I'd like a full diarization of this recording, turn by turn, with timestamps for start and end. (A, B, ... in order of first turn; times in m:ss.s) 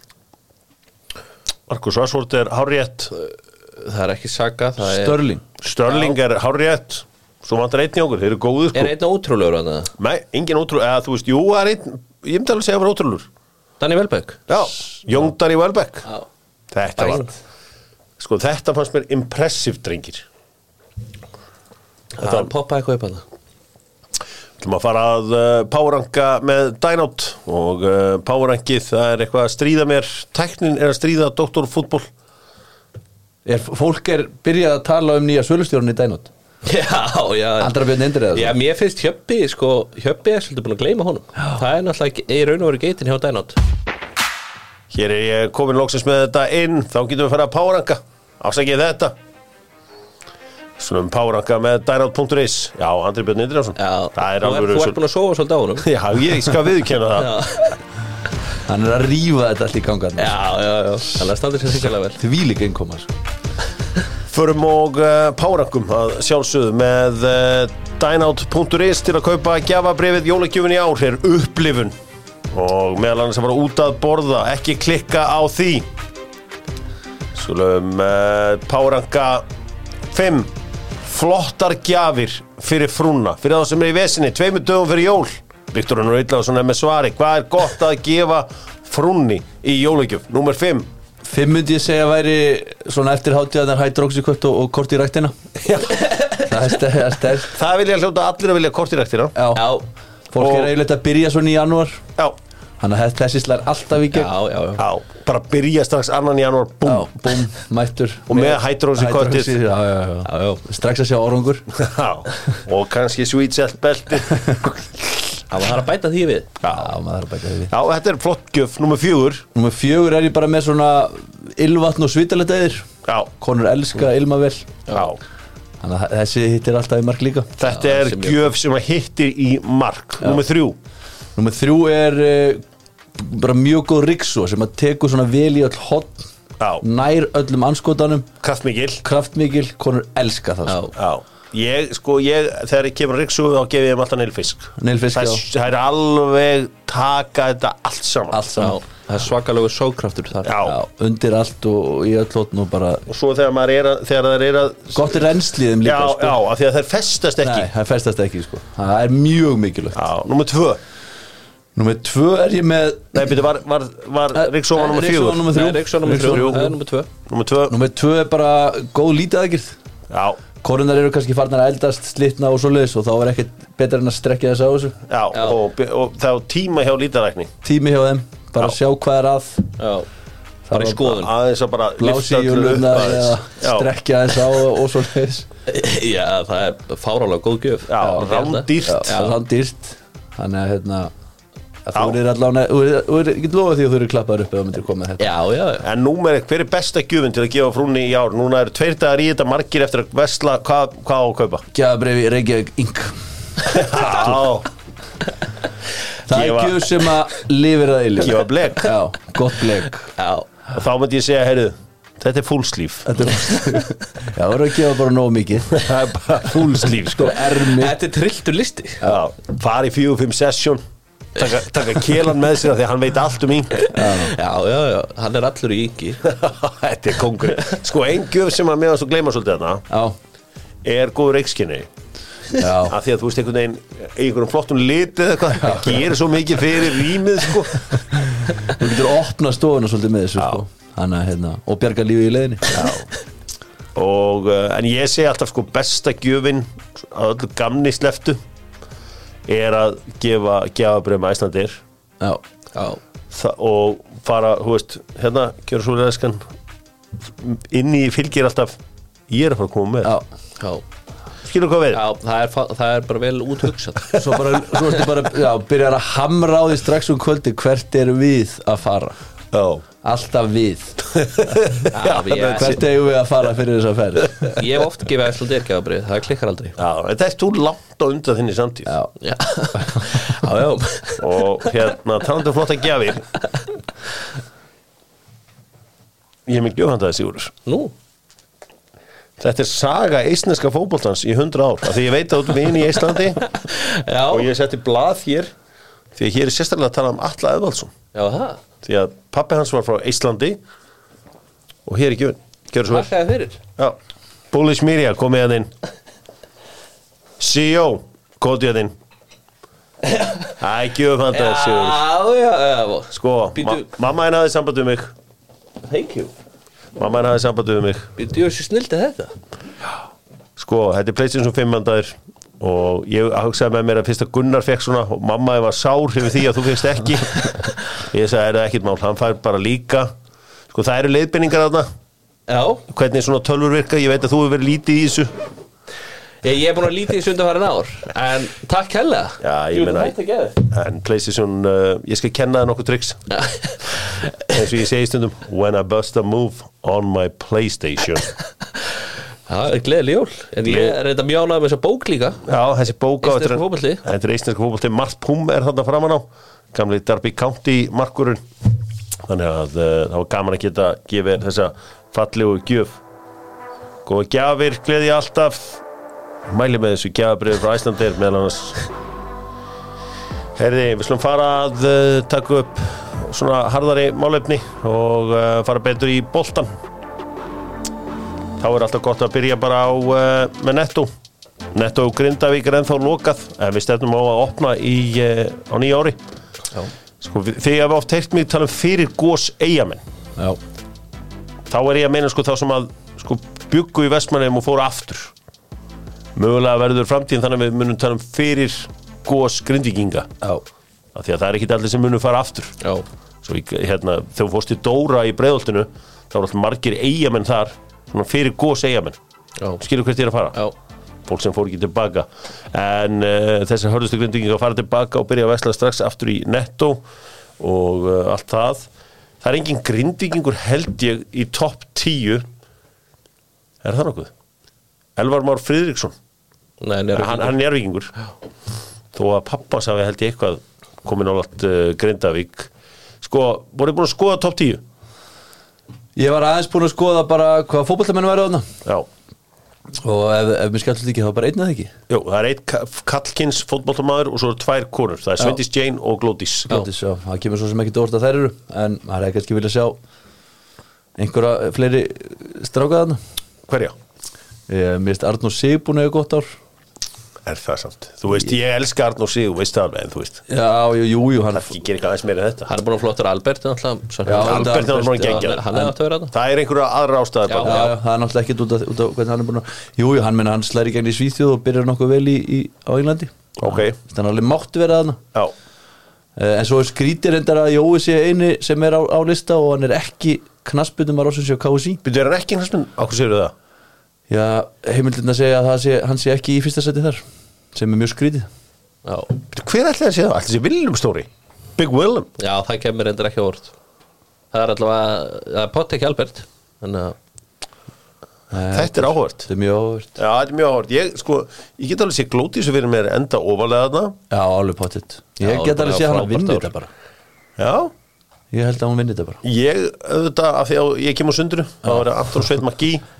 0:01.7-0:03.1 A
0:03.2-0:05.3 B
0:04.8-0:05.4 C
0:05.6-0:08.9 A
0:05.8-0:06.2 B
0:08.7-0:09.9 B
0:10.0-0:13.3 A
0:13.8-0:14.5 B
0:14.5-0:16.1 A
0:16.7-0:17.3 A
0:17.0-0:17.4 B
0:18.2-0:20.2 A
0:22.2-0:22.5 A
0:22.2-0:23.2 B
0:24.6-0:32.1 A
0:33.4-0:36.3 C
0:36.6-0:43.6 B
0:37.6-0:38.5 C
0:44.9-0:49.2 A
0:50.8-0:55.0 A
0:53.8-0:56.6 B
0:55.8-0:57.4 A
0:57.1-0:57.8 B
0:58.7-1:00.3 C
1:00.2-1:02.2 B
1:02.2-1:03.1 C
1:04.3-1:12.0 A
1:12.5-1:15.9 A
1:17.3-1:19.4 A
1:20.1-1:20.5 A
1:21.0-1:30.9 A
1:31.2-1:35.3 C
1:35.6-1:35.9 A
1:36.0-1:36.4 B
1:36.4-1:37.6 C
1:37.5-1:39.4 A
1:39.3-1:42.0 C
1:39.5-1:39.8 B
1:40.4-1:40.7 A
1:42.8-1:44.3 C
1:44.1-1:44.8 B
1:44.8-1:47.1 A
1:46.8-1:51.7 C
1:48.3-1:49.6 A
1:50.3-1:50.6 B
1:51.7-1:54.9 A
1:55.5-1:56.5 B
1:56.6-1:56.9 A
1:56.7-1:57.7 C
1:57.7-1:59.4 A
1:59.5-2:04.8 C
2:04.9-2:05.2 A
2:05.8-2:07.5 C
2:07.6-2:10.8 A
2:07.6-2:08.5 B
2:11.4-2:12.6 C
2:13.2-2:16.3 C
2:16.8-2:18.3 C
2:18.4-2:19.0 A
2:19.0-2:20.9 C
2:20.6-2:20.9 B
2:21.0-2:28.5 A
2:24.8-2:25.4 C
2:28.3-2:28.8 C
2:28.5-2:30.5 B
2:30.4-2:30.8 A
2:30.6-2:33.0 C
2:33.1-2:35.2 A
2:34.9-2:36.4 C
2:35.8-2:37.7 A
2:37.4-2:40.0 C
2:39.9-2:40.8 A
2:41.8-2:43.3 C
2:43.1-2:45.5 A
2:44.3-2:46.7 C
2:45.5-2:47.1 B
2:46.3-2:46.6 A
2:47.3-2:47.8 A
2:47.7-2:49.8 C
2:50.1-2:50.4 A
2:50.6-2:55.0 C
2:55.0-2:57.5 A
2:57.6-2:59.7 C
2:59.8-3:00.1 B
3:00.7-3:01.1 C
3:00.7-3:01.3 B
3:00.8-3:03.9 A
3:02.0-3:05.5 C
3:05.7-3:09.4 B
3:07.9-3:09.1 A
3:08.0-3:08.2 C
3:08.8-3:11.1 C
3:11.8-3:15.3 C
3:15.2-3:15.8 B
3:15.8-3:21.6 A
3:21.7-3:23.9 C
3:23.7-3:24.7 A
3:26.2-3:30.1 C
3:26.3-3:26.9 A
3:28.2-3:28.9 A
3:30.2-3:30.5 B
3:30.7-3:33.3 A
3:33.1-3:35.8 C
3:33.4-3:33.8 B
3:35.7-3:37.4 A
3:37.1-3:38.0 C
3:37.5-3:39.0 B
3:39.0-3:40.8 A
3:41.3-3:43.9 A
3:43.8-3:46.2 B
3:43.9-3:44.3 C
3:46.2-3:49.8 A
3:49.9-3:50.2 C
3:50.8-3:51.9 A
3:52.6-3:53.0 C
3:52.8-3:58.0 A
3:55.6-3:56.1 C
3:58.6-4:02.9 C
4:02.7-4:03.1 A
4:03.9-4:08.4 A
4:09.5-4:11.8 A
4:12.7-4:13.0 B
4:13.3-4:16.4 A
4:17.2-4:18.8 A
4:19.3-4:20.2 A
4:20.6-4:20.8 B
4:21.4-4:22.0 A
4:21.9-4:24.6 B
4:24.1-4:29.2 C
4:29.5-4:29.8 A
4:30.0-4:31.0 C
4:31.2-4:32.8 A
4:31.9-4:32.8 B
4:32.5-4:34.6 C
4:34.4-4:36.8 B
4:36.8-4:38.9 A
4:38.8-4:39.1 C
4:39.2-4:41.7 B
4:41.2-4:43.3 A
4:46.4-4:47.5 A
4:47.6-4:47.9 B
4:49.4-4:53.5 A
4:53.5-4:54.5 B
4:54.3-4:55.5 A
4:56.1-4:57.9 A
4:58.1-4:58.6 B
4:58.8-5:00.6 A
5:01.8-5:03.1 A
5:02.9-5:03.6 B
5:04.5-5:05.7 A
5:07.4-5:08.9 A
5:10.0-5:10.6 B
5:10.6-5:12.0 A
5:11.3-5:13.9 B
5:13.1-5:15.1 A
5:15.8-5:16.3 B
5:17.0-5:18.1 A
5:18.2-5:19.3 B
5:20.6-5:30.1 A
5:30.7-5:31.9 A
5:32.5-5:32.8 B
5:32.9-5:35.3 A
5:36.4-5:40.6 B
5:39.4-5:43.2 A
5:43.3-5:44.2 B
5:44.5-5:48.3 A
5:49.5-5:52.4 B
5:50.6-5:51.0 A
5:52.4-5:58.4 A
5:53.2-5:54.0 B
5:59.2-6:03.0 A
6:04.0-6:05.8 A
6:06.5-6:08.9 A
6:10.6-6:16.7 A
6:18.6-6:21.1 A
6:21.7-6:26.2 A
6:27.2-6:30.0 A
6:31.7-6:35.3 A
6:36.3-6:40.3 A
6:41.1-6:42.8 A
6:43.4-6:49.2 A
6:49.8-6:50.6 A
6:51.2-6:57.0 A
6:57.6-6:58.9 A
6:59.4-7:02.4 A
7:03.8-7:04.3 A
7:05.2-7:06.1 A
7:06.8-7:07.6 B
7:07.1-7:08.1 A
7:09.1-7:12.7 A
7:13.2-7:14.8 A
7:16.2-7:18.7 C
7:20.0-7:21.9 C
7:22.1-7:26.7 A
7:26.7-7:30.0 C
7:31.2-7:33.2 C
7:33.7-7:34.0 A
7:34.7-7:36.6 C
7:37.4-7:40.4 A
7:40.5-7:41.8 C
7:41.5-7:42.7 A
7:42.7-7:46.3 B
7:44.2-7:45.9 C
7:44.3-7:45.7 A
7:46.3-7:47.9 A
7:47.5-7:47.9 B
7:47.6-7:53.3 C
7:53.6-7:54.0 A
7:54.0-7:55.2 C
7:56.4-8:02.0 C
8:02.0-8:03.5 A
8:04.3-8:07.2 C
8:07.7-8:08.5 C
8:09.0-8:09.3 B
8:09.5-8:12.3 A
8:12.4-8:13.7 B
8:14.5-8:17.2 B
8:18.5-8:20.2 C
8:18.7-8:19.5 A
8:20.2-8:24.2 A
8:24.3-8:26.9 C
8:25.4-8:26.7 B
8:27.6-8:27.9 A
8:28.5-8:29.4 C
8:29.4-8:33.0 A